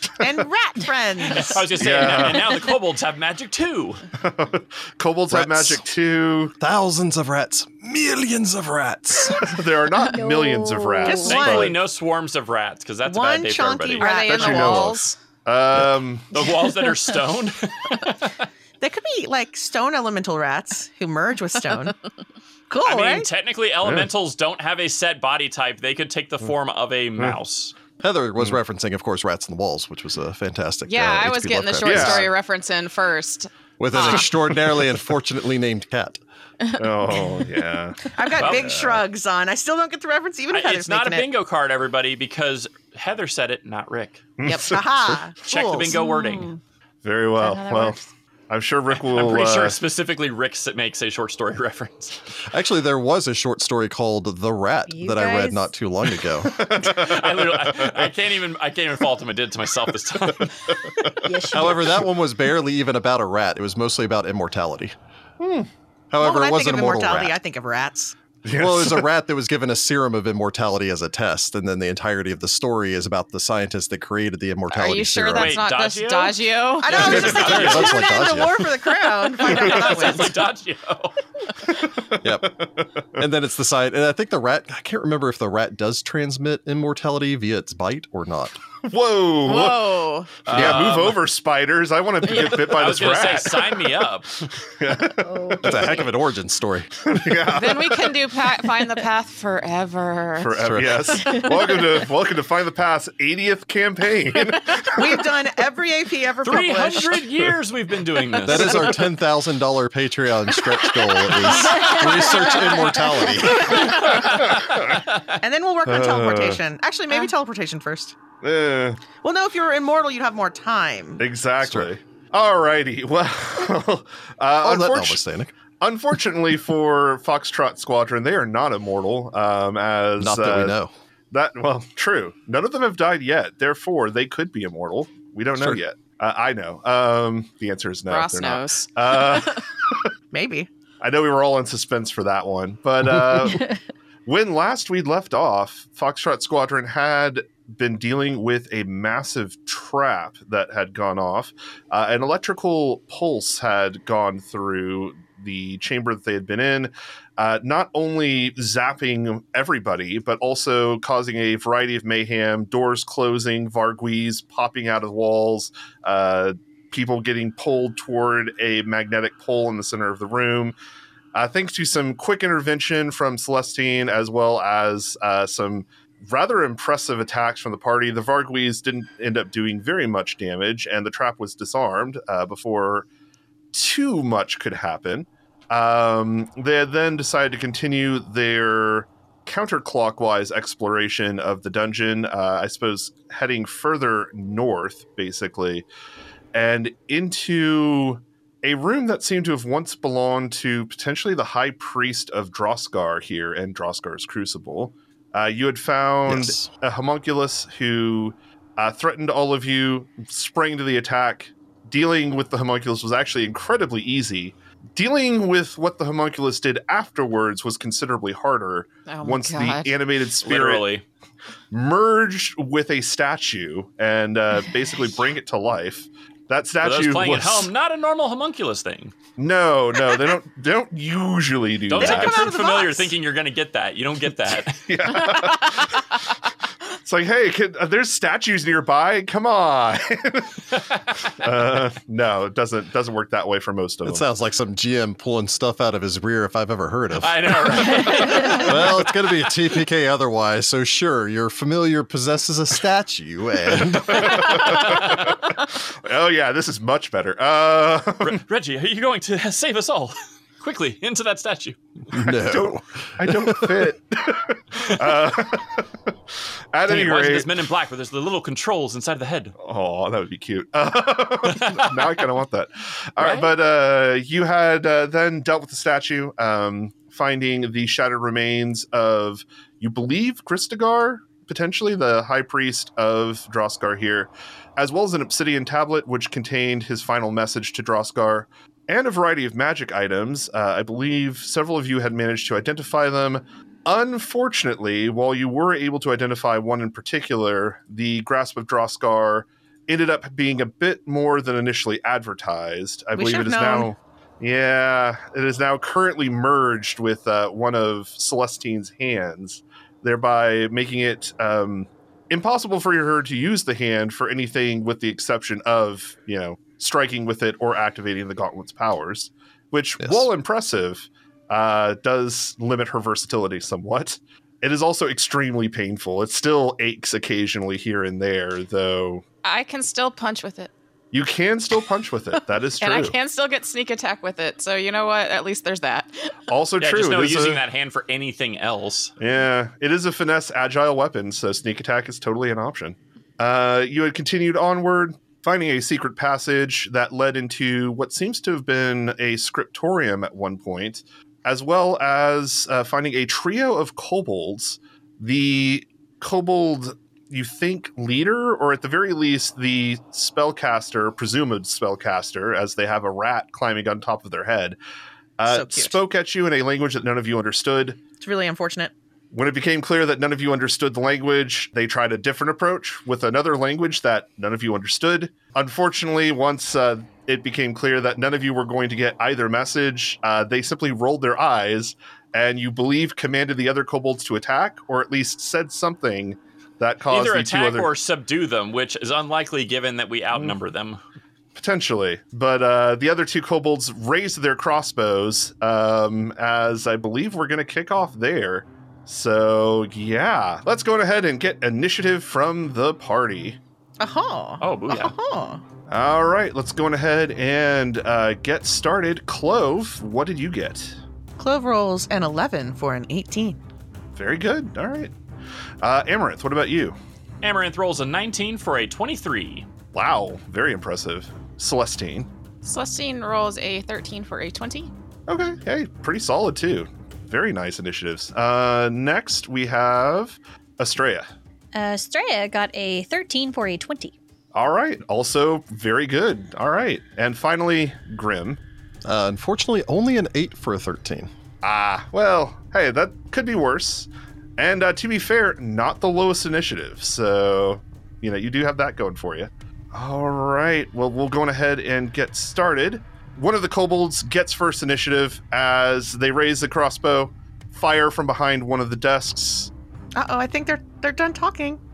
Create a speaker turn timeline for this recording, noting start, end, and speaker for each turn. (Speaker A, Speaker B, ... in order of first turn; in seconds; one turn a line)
Speaker A: 0.2-2.0
Speaker B: 1.2-4.0
Speaker C: 1.8-2.6
Speaker C: 4.2-6.5
Speaker D: 5.3-5.8
Speaker D: 6.6-9.6
Speaker C: 9.3-11.8
Speaker E: 10.1-11.4
Speaker A: 11.0-11.8
Speaker B: 11.2-14.3
Speaker A: 13.1-14.9
Speaker F: 14.0-15.2
Speaker C: 14.3-16.6
Speaker B: 16.3-18.5
Speaker A: 18.8-21.9
Speaker A: 22.7-23.3
Speaker B: 22.8-27.7
Speaker C: 23.8-24.1
Speaker D: 28.0-32.3
Speaker F: 30.9-34.3
Speaker C: 31.8-32.3
Speaker D: 33.8-36.2
Speaker C: 36.8-39.0
Speaker A: 38.1-41.3
Speaker B: 38.4-38.7
Speaker B: 40.5-44.2
Speaker C: 44.4-45.2
Speaker F: 44.4-44.8
Speaker A: 44.7-46.0
Speaker B: 45.4-46.5
Speaker F: 45.9-46.5
Speaker E: 46.1-46.5
Speaker C: 47.0-48.0
Speaker F: 47.4-48.1
Speaker C: 48.5-49.8
Speaker B: 48.9-52.1
Speaker D: 52.5-56.6
Speaker E: 54.9-55.7
Speaker C: 56.4-58.1
Speaker B: 56.7-61.0
Speaker C: 60.3-61.7
Speaker E: 61.2-61.9
Speaker D: 61.5-65.0
Speaker C: 65.4-65.7
Speaker D: 66.1-67.3
Speaker A: 66.2-68.1
Speaker C: 68.4-69.1
Speaker D: 68.5-75.6
Speaker F: 74.7-77.1
Speaker B: 75.3-78.3
Speaker A: 76.8-80.4
Speaker D: 77.0-78.7
Speaker B: 79.4-81.1
Speaker C: 81.8-82.7
Speaker D: 82.2-82.5
Speaker D: 83.2-88.5
Speaker C: 88.8-93.9
Speaker F: 89.4-90.4
Speaker B: 90.5-91.2
Speaker D: 90.5-90.9
Speaker B: 92.2-94.5
Speaker C: 94.6-95.9
Speaker E: 95.2-96.0
Speaker D: 95.6-96.9
Speaker C: 97.0-98.2
Speaker F: 97.5-101.8
Speaker C: 100.4-105.2
Speaker D: 100.6-101.2
Speaker A: 105.0-107.2
Speaker B: 106.4-109.1
Speaker D: 108.4-114.0
Speaker C: 113.8-115.0
Speaker B: 113.8-115.2
Speaker A: 115.4-118.2
Speaker C: 115.9-116.6
Speaker C: 118.4-119.0
Speaker A: 119.1-121.2
Speaker C: 121.2-125.2
Speaker D: 121.6-121.9
Speaker D: 124.6-125.5
Speaker C: 125.8-130.8
Speaker D: 130.2-130.9
Speaker C: 131.3-140.0
Speaker D: 135.6-135.8
Speaker F: 138.1-138.9
Speaker A: 140.3-140.7
Speaker C: 141.0-143.7
Speaker C: 144.2-170.8
Speaker C: 171.3-183.1
Speaker C: 183.7-195.9
Speaker C: 196.5-220.8
Speaker D: 206.2-206.7
Speaker F: 219.1-219.9
Speaker B: 220.4-221.0
Speaker C: 221.7-227.7
Speaker B: 226.8-229.1
Speaker C: 229.4-232.5
Speaker B: 231.9-235.2
Speaker A: 232.0-233.1
Speaker C: 234.9-236.1
Speaker C: 236.9-244.2
Speaker D: 244.0-254.5
Speaker B: 247.2-249.0
Speaker C: 254.1-258.4
Speaker B: 254.1-255.1
Speaker B: 258.2-261.8
Speaker D: 262.1-263.9
Speaker C: 262.4-266.1
Speaker C: 266.7-267.5
Speaker B: 266.9-269.5
Speaker C: 269.6-329.2
Speaker B: 271.5-272.1
Speaker B: 273.2-273.5
Speaker A: 303.1-303.9
Speaker D: 320.0-320.3
Speaker F: 329.4-330.7
Speaker C: 331.1-333.1
Speaker F: 332.8-336.4
Speaker C: 336.5-337.6
Speaker B: 336.8-339.1
Speaker C: 339.2-364.8
Speaker C: 365.4-368.0
Speaker A: 365.4-366.0
Speaker A: 368.1-368.9
Speaker C: 369.3-387.9
Speaker B: 387.1-391.0
Speaker C: 391.5-403.6
Speaker A: 404.0-405.6
Speaker B: 404.6-405.1
Speaker C: 405.9-411.0
Speaker A: 411.4-413.6
Speaker C: 414.1-415.1
Speaker C: 415.8-416.9
Speaker B: 417.4-419.7
Speaker C: 419.9-422.3
Speaker F: 422.6-424.9
Speaker C: 425.3-431.3
Speaker E: 431.7-434.1
Speaker C: 434.5-438.6
Speaker D: 439.0-441.3
Speaker C: 441.6-459.7
Speaker A: 460.1-461.8